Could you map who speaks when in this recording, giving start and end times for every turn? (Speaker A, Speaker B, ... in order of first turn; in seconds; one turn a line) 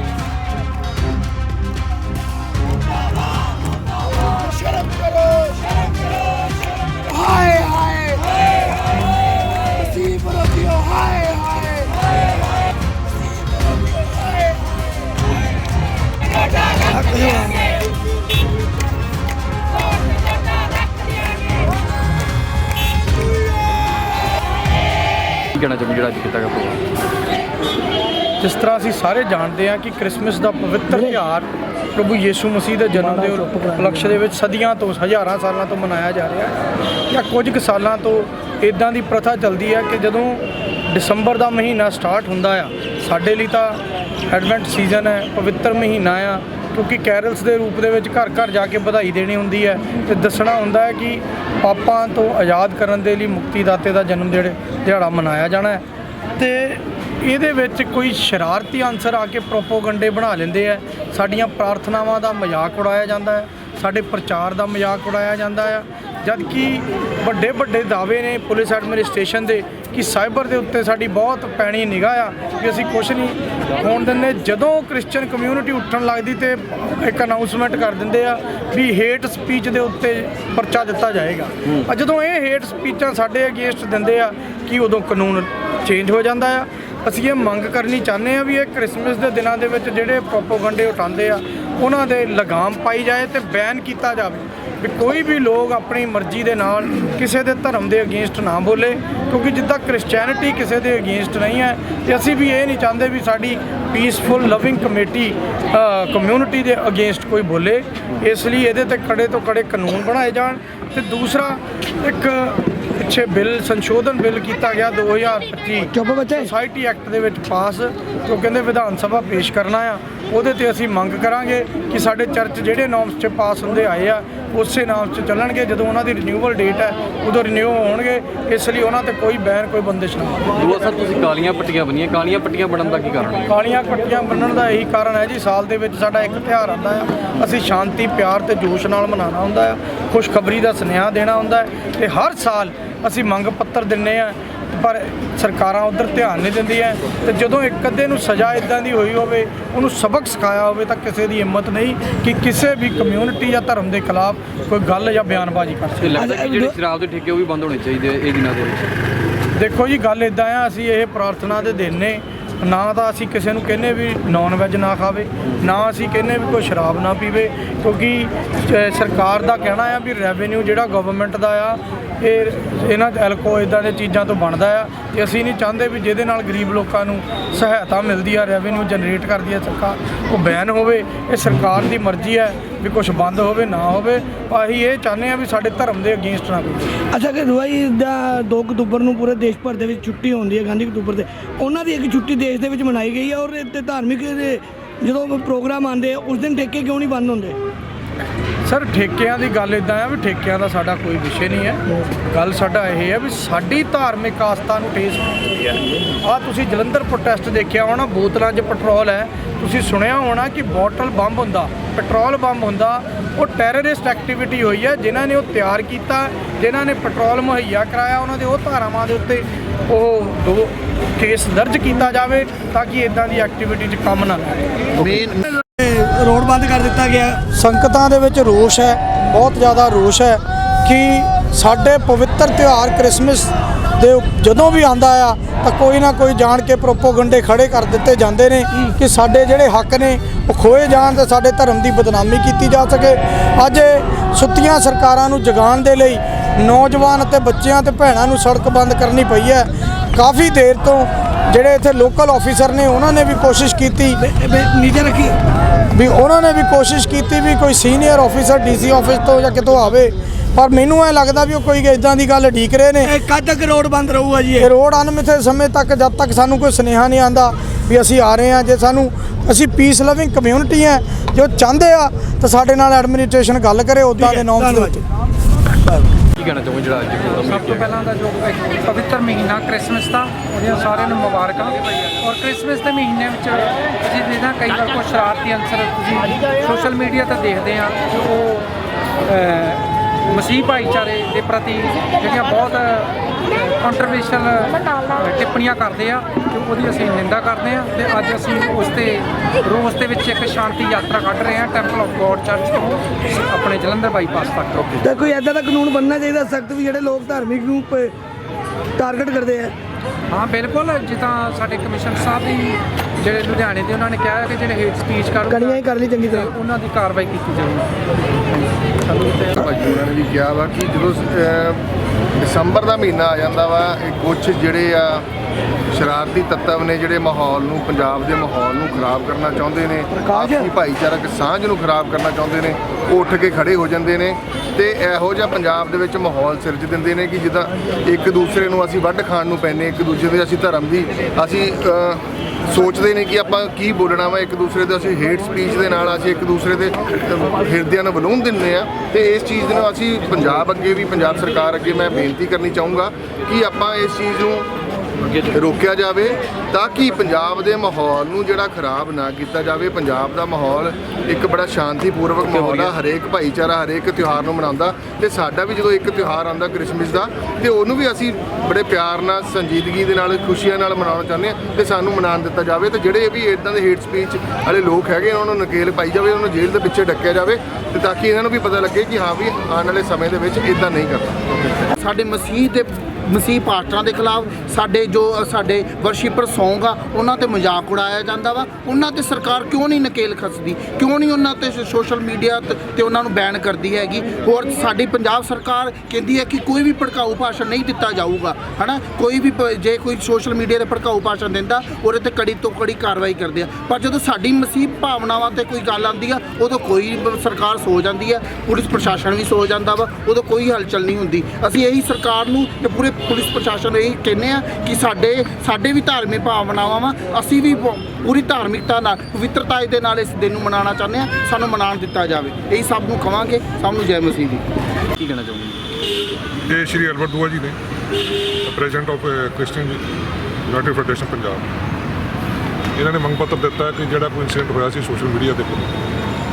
Speaker A: 7.1-8.2
Speaker A: 9.9-11.7
Speaker A: 16.9-17.6
Speaker B: 25.5-26.8
Speaker C: 28.4-55.8
Speaker A: 33.0-34.0
Speaker C: 56.4-130.4
Speaker A: 115.9-116.5
Speaker B: 130.5-133.5
Speaker C: 133.5-156.2
Speaker B: 156.0-158.8
Speaker A: 156.2-156.8
Speaker C: 159.5-186.9
Speaker A: 187.1-197.6
Speaker C: 198.6-205.6
Speaker C: 206.2-224.6
Speaker D: 225.0-225.4
Speaker A: 225.6-227.4
Speaker C: 227.5-254.2
Speaker A: 254.2-255.3
Speaker C: 255.9-263.1
Speaker A: 263.0-264.7
Speaker C: 264.6-275.0
Speaker A: 274.2-275.0
Speaker B: 276.4-277.9
Speaker E: 277.4-305.0
Speaker A: 305.0-308.1
Speaker A: 309.0-309.7
Speaker E: 310.3-317.9
Speaker A: 315.5-316.5
Speaker E: 318.5-319.6
Speaker F: 319.5-321.8
Speaker F: 322.4-325.2
Speaker F: 325.9-354.7
Speaker A: 330.2-330.6
Speaker F: 355.5-381.6
Speaker B: 362.4-362.9
Speaker D: 382.0-424.7
Speaker B: 425.2-425.8
Speaker G: 426.7-427.8
Speaker G: 428.6-430.0
Speaker G: 430.7-431.6
Speaker G: 432.9-435.9